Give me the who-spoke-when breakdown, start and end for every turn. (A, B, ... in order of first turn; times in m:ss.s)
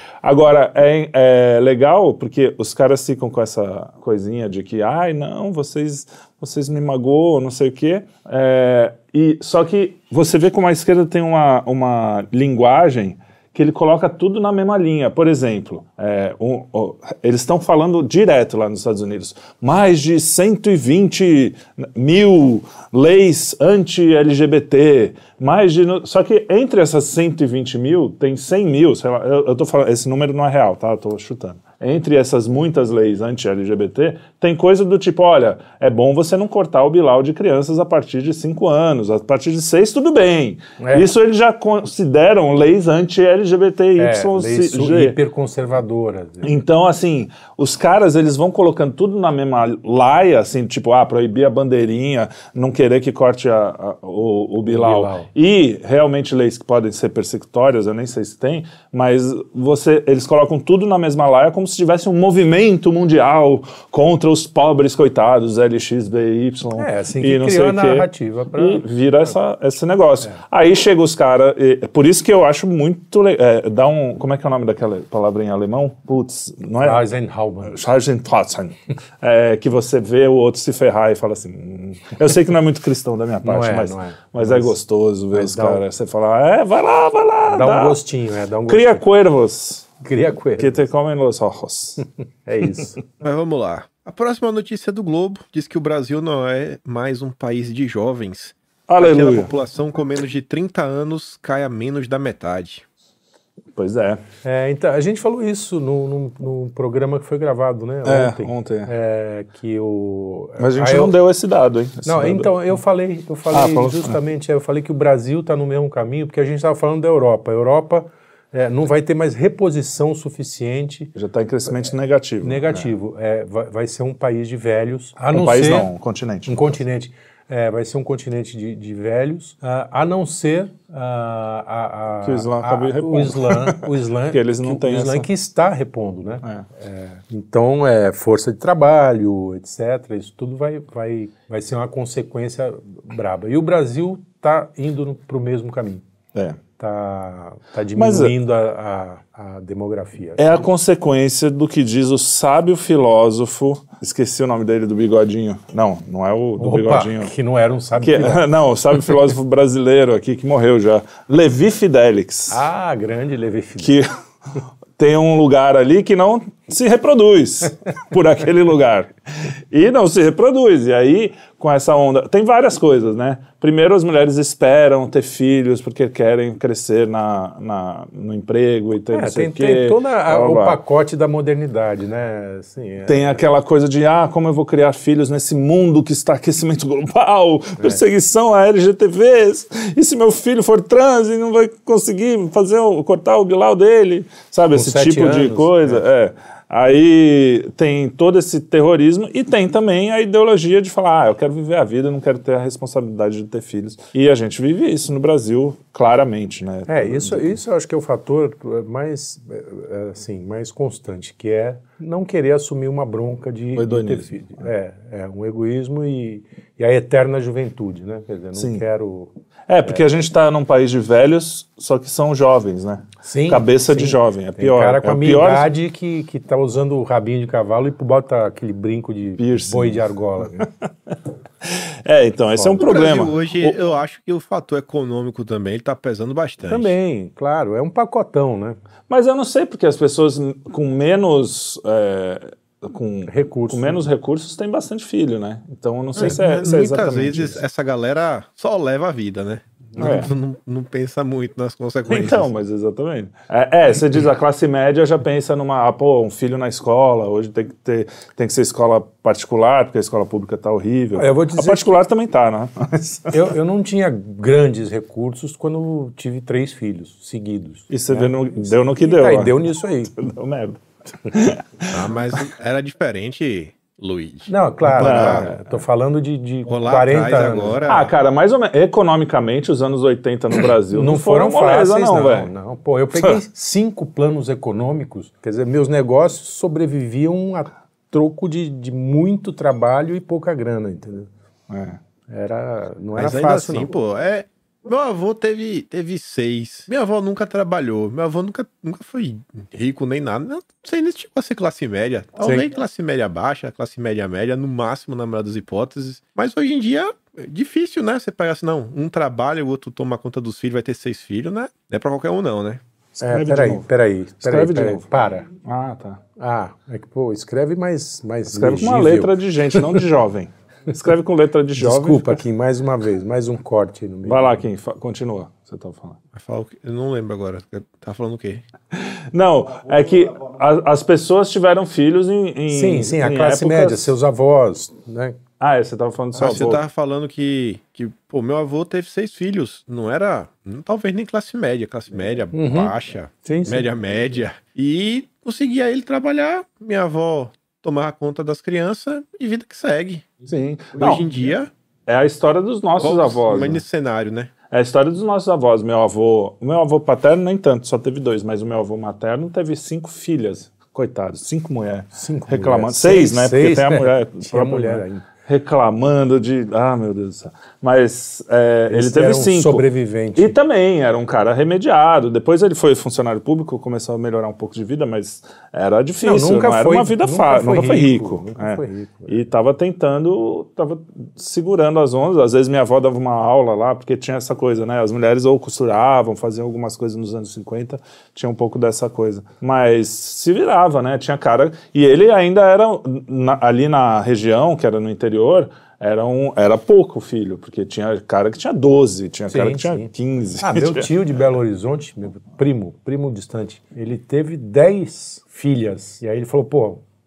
0:00.2-0:45.2 A
0:40.8-0:41.1 B
0:44.0-0:46.5 B
0:46.4-1:17.0 A
0:54.6-0:55.3 B
1:06.8-1:08.9 B
1:16.8-1:17.8 B
1:17.6-1:28.0 A
1:23.4-1:24.8 B
1:25.3-1:25.8 B
1:27.5-1:29.0 B
1:28.7-1:30.0 A
1:30.0-1:30.8 B
1:30.6-1:32.0 A
1:32.4-1:33.0 B
1:33.2-1:42.8 C
1:38.9-1:39.5 A
1:43.8-1:44.2 A
1:44.4-1:51.1 B
1:48.0-1:48.9 A
1:50.6-1:52.5 A
1:52.0-2:01.1 B
1:53.5-1:54.1 A
2:01.1-2:02.9 A
2:02.4-2:05.9 B
2:05.3-2:06.7 A
2:06.4-2:26.0 B
2:12.2-2:15.3 A
2:26.3-2:26.6 A
2:26.8-2:30.4 B
2:27.9-2:28.3 A
2:30.4-2:37.3 A
2:36.6-2:38.4 B
2:38.0-2:42.6 A
2:42.5-2:44.0 B
2:43.8-2:44.1 A
2:45.0-3:00.8 A
2:59.1-3:03.4 B
3:03.0-3:27.6 A
3:14.7-3:16.0 B
3:26.9-3:39.3 B
3:33.7-3:34.6 A
3:38.5-3:38.8 A
3:39.7-3:45.7 A
3:43.2-3:50.7 B
3:49.4-3:53.7 A
3:52.7-3:56.9 C
3:56.7-3:57.0 A
3:56.7-3:58.8 B
3:59.1-4:07.6 A
4:03.3-4:04.1 B
4:06.2-4:12.5 C
4:10.0-4:10.3 A
4:12.1-4:23.5 A
4:21.2-4:22.0 B
4:23.3-4:30.1 B
4:27.9-4:32.4 A
4:31.9-4:35.5 C
4:34.5-4:37.9 B
4:34.8-4:35.8 A
4:36.7-4:38.1 C
4:37.9-4:42.5 A
4:40.9-4:51.3 B
4:51.7-4:52.0 A
4:52.3-4:53.9 B
4:53.2-5:12.8 C
5:02.4-5:02.7 B
5:13.2-5:13.9 A
5:13.2-5:15.5 B
5:14.4-5:16.2 A
5:16.4-5:20.0 B
5:18.5-5:22.4 A
5:21.8-5:24.6 B
5:24.2-5:26.2 A
5:26.3-5:28.6 C
5:28.9-5:34.1 A
5:32.7-5:35.4 B
5:35.6-5:36.8 A
5:36.3-5:50.3 C
5:42.5-5:42.9 B
5:43.4-5:43.9 B
5:50.4-5:51.3 A
5:50.9-5:51.7 C
5:52.1-5:53.8 A
5:53.0-5:54.5 C
5:54.7-6:41.1 A
6:02.2-6:05.3 B
6:08.9-6:10.5 B
6:16.2-6:19.4 B
6:39.5-6:40.1 B
6:40.6-6:47.0 B